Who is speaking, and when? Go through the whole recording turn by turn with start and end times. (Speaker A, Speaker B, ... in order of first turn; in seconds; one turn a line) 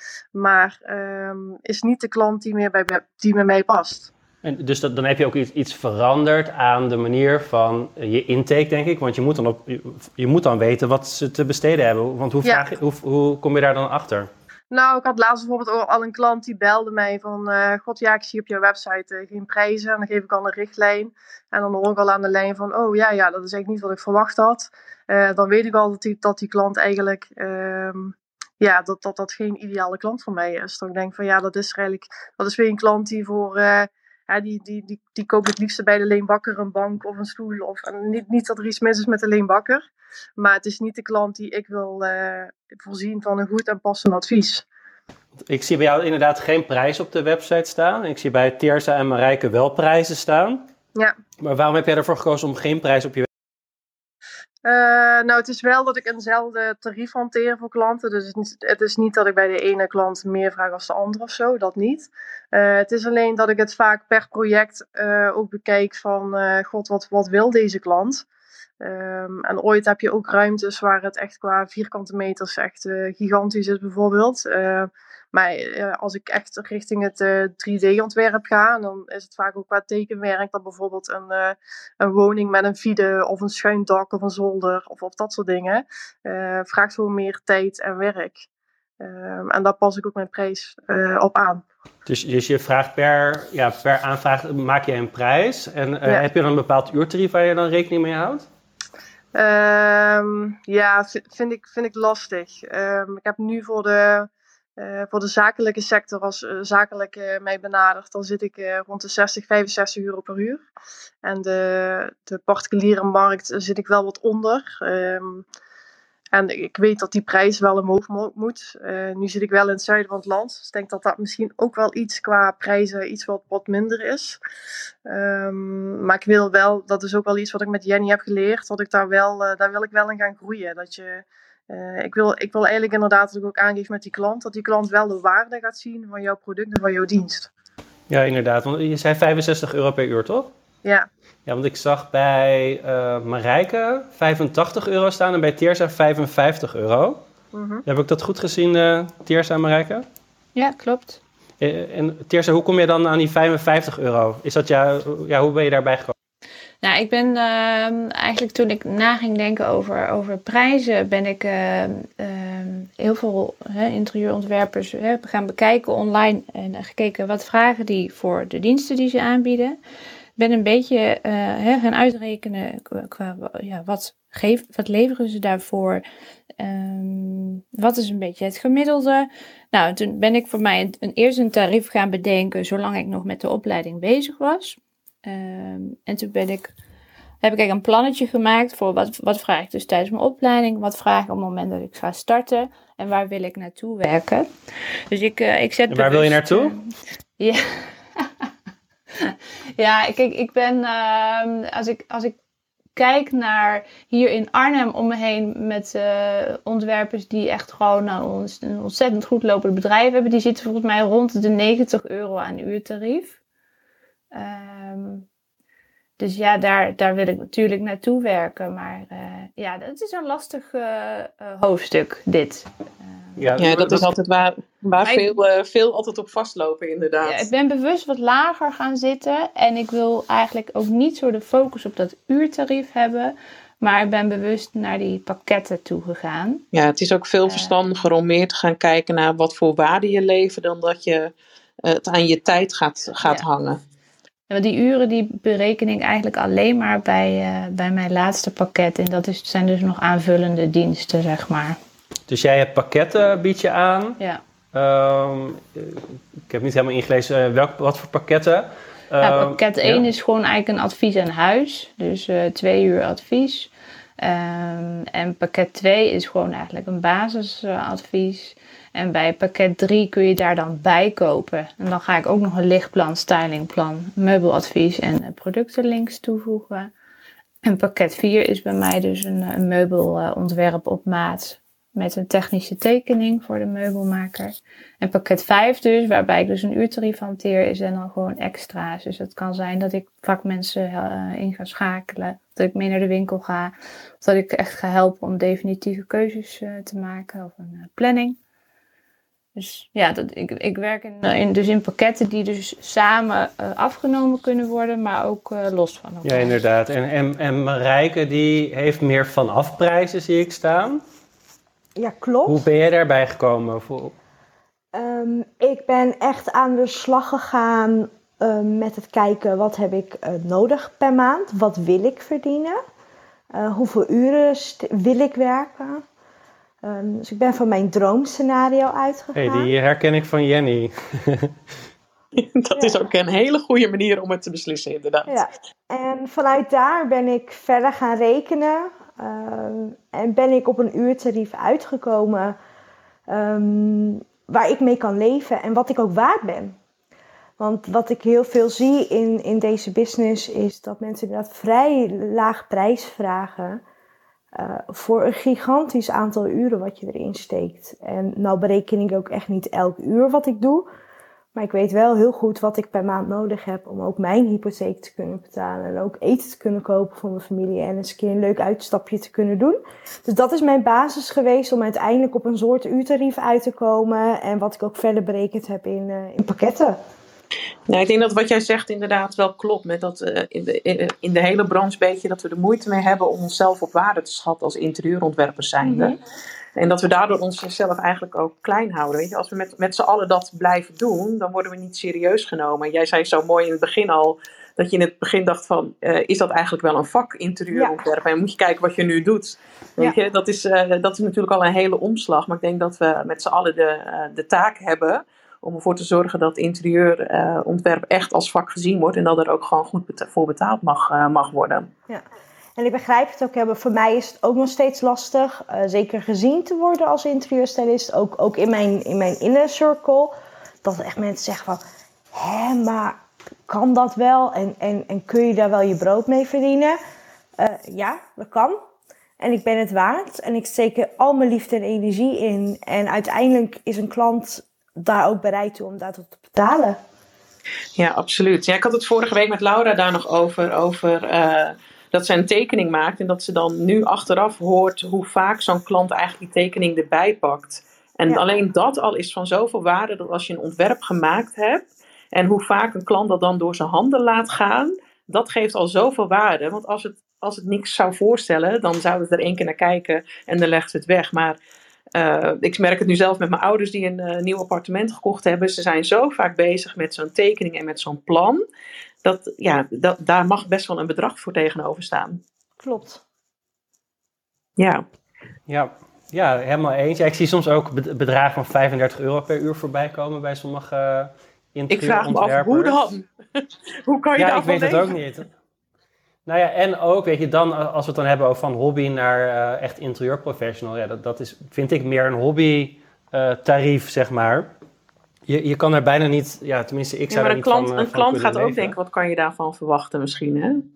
Speaker A: 0.3-4.1
Speaker B: 4.4-14.3
Speaker A: 14.7-39.8
Speaker A: 40.4-44.6
Speaker B: 45.5-50.7
Speaker B: 51.4-53.3
Speaker A: 54.6-68.2
Speaker A: 68.8-88.5
Speaker A: 89.0-91.6
Speaker B: 92.1-98.5
Speaker A: 99.3-110.7
Speaker A: 111.2-115.5
Speaker A: 116.3-124.4
Speaker A: 125.1-137.5
Speaker B: 138.1-140.5
Speaker B: 141.5-147.2
Speaker A: 147.5-147.8
Speaker B: 147.9-150.1
Speaker C: 150.6-151.2
Speaker B: 151.6-156.1
Speaker C: 156.8-169.8
Speaker C: 170.4-176.0
Speaker C: 176.6-186.7
Speaker C: 187.4-194.5
Speaker C: 195.1-198.5
Speaker B: 195.9-196.8
Speaker C: 199.2-202.4
Speaker C: 202.9-213.4
Speaker C: 214.3-215.3
Speaker C: 216.2-223.1
Speaker B: 223.4-224.1
Speaker D: 223.6-227.5
Speaker C: 225.0-225.4
Speaker C: 227.2-236.6
Speaker D: 236.7-241.3
Speaker C: 237.5-237.7
Speaker D: 241.8-243.8
Speaker C: 244.5-251.8
Speaker B: 252.3-254.2
Speaker B: 254.7-260.1
Speaker C: 259.2-276.9
Speaker C: 277.6-298.4
Speaker C: 299.6-306.6
Speaker B: 306.2-311.0
Speaker E: 312.0-312.7
Speaker B: 312.5-314.1
Speaker E: 314.9-322.8
Speaker E: 323.5-326.0
Speaker E: 326.8-329.7
Speaker B: 329.4-331.6
Speaker D: 332.4-335.3
Speaker E: 335.3-342.6
Speaker E: 343.3-346.8
Speaker E: 347.6-353.8
Speaker E: 354.6-360.9
Speaker E: 361.6-377.0
Speaker D: 377.9-386.2
Speaker E: 385.8-386.1
Speaker D: 386.8-411.9
Speaker E: 397.7-398.0
Speaker E: 412.8-427.0
Speaker E: 427.6-428.8
Speaker E: 429.4-437.0
Speaker D: 438.0-461.6
Speaker D: 462.1-468.6
Speaker D: 469.2-472.4
Speaker E: 472.8-473.2
Speaker D: 474.8-475.1
Speaker B: 475.7-483.1
Speaker D: 481.9-485.1
Speaker B: 484.4-485.5
Speaker B: 486.5-494.7
Speaker B: 495.5-499.0
Speaker D: 497.3-500.8